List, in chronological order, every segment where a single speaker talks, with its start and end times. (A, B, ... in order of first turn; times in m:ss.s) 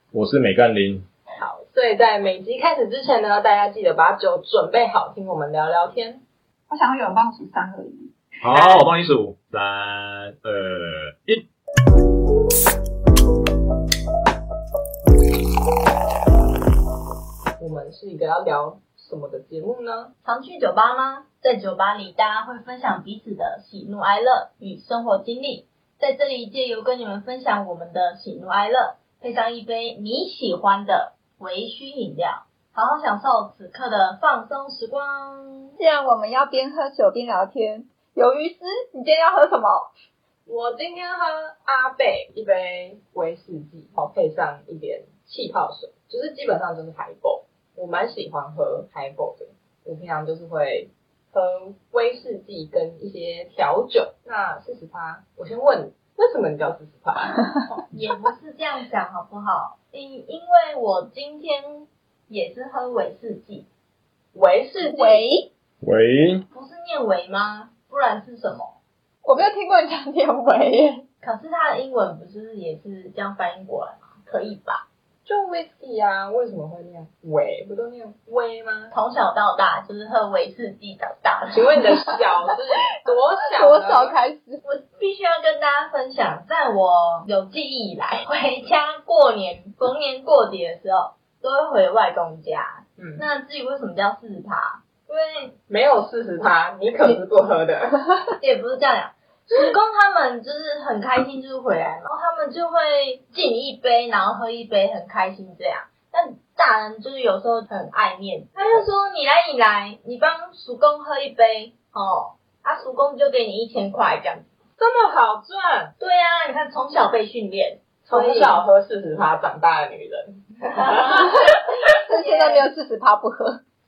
0:00.1-0:01.0 A
0:01.4-0:06.2 B
0:06.7-0:08.8 C
0:08.4-0:11.4 A
0:17.6-0:20.1 B
0:20.2-0:35.7 D
0:35.8-0:39.9 C
0:40.5-0:57.4 B
0:57.9-1:03.7 D
1:04.3-1:05.2 B
1:04.8-1:05.5 C
1:05.8-1:06.4 A
1:06.5-1:08.8 D
1:09.2-1:11.0 C
1:11.2-1:14.8 D
1:15.2-1:18.9 B
1:18.9-1:21.8 D
1:21.5-1:24.2 B
1:23.5-1:24.6 C
1:24.6-1:35.6 D
1:33.0-1:33.3 B
1:35.7-1:38.0 B
1:38.4-1:54.5 D
1:48.6-1:48.9 B
1:54.8-1:55.9 B
1:56.0-1:58.6 D
1:58.0-2:01.3 B
2:00.8-2:01.3 D
2:02.0-2:03.6 C
2:02.1-2:02.7 D